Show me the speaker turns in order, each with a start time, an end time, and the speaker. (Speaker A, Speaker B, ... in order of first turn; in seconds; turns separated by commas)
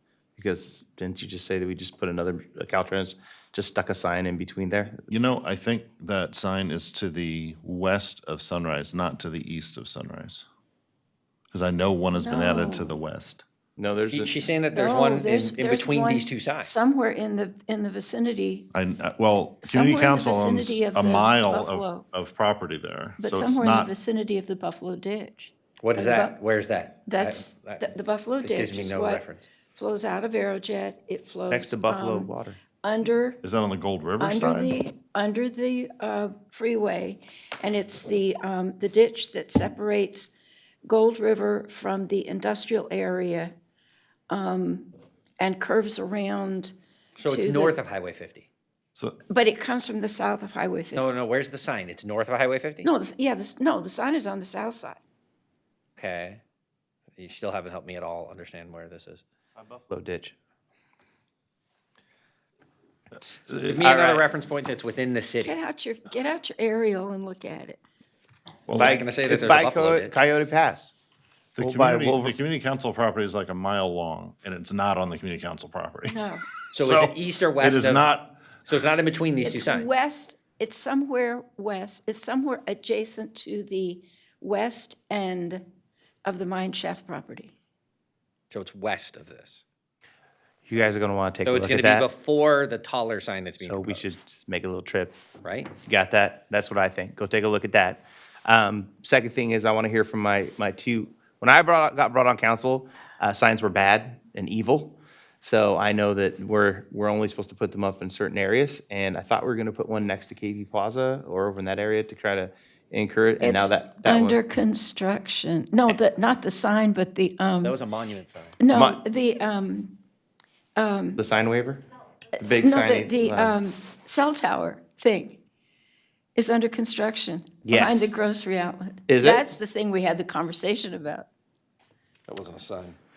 Speaker A: 0.3-5.1, Speaker B: 5.1-10.5, Speaker B: 11.5-13.4, Speaker C: 12.1-13.0, Speaker A: 13.8-14.3, Speaker D: 14.1-16.9, Speaker C: 14.7-18.7, Speaker B: 18.7-23.9, Speaker C: 19.2-22.0, Speaker C: 23.2-26.4, Speaker D: 25.8-27.9, Speaker C: 27.1-33.4, Speaker D: 28.4-29.5, Speaker A: 31.5-32.6, Speaker B: 33.4-34.8, Speaker C: 34.2-40.3, Speaker C: 40.8-43.5, Speaker C: 44.3-47.8, Speaker D: 47.2-48.5, Speaker C: 49.3-51.1, Speaker D: 50.9-52.9, Speaker C: 52.8-55.0, Speaker D: 56.0-56.4, Speaker D: 57.1-59.2, Speaker A: 59.6-60.3, Speaker B: 63.5-63.8, Speaker D: 63.7-65.6, Speaker A: 63.8-64.2, Speaker C: 65.4-67.8, Speaker B: 68.7-69.0, Speaker D: 68.7-70.2, Speaker A: 68.7-70.9, Speaker B: 71.5-78.4, Speaker A: 71.6-72.3, Speaker C: 76.1-76.5, Speaker D: 76.7-78.1, Speaker D: 78.6-79.9, Speaker C: 79.4-85.7, Speaker C: 86.2-87.5, Speaker D: 88.5-89.6, Speaker A: 90.7-92.1, Speaker D: 91.4-94.0, Speaker A: 93.6-95.1, Speaker D: 95.4-95.7, Speaker A: 95.8-114.4, Speaker C: 113.4-117.8, Speaker D: 117.6-118.6, Speaker C: 118.6-119.9, Speaker A: 118.7-119.0, Speaker C: 120.8-121.2, Speaker A: 121.2-121.8, Speaker A: 122.3-123.5, Speaker C: 122.6-125.4, Speaker C: 126.3-131.3, Speaker A: 127.6-128.2, Speaker A: 129.1-129.4, Speaker D: 132.3-133.0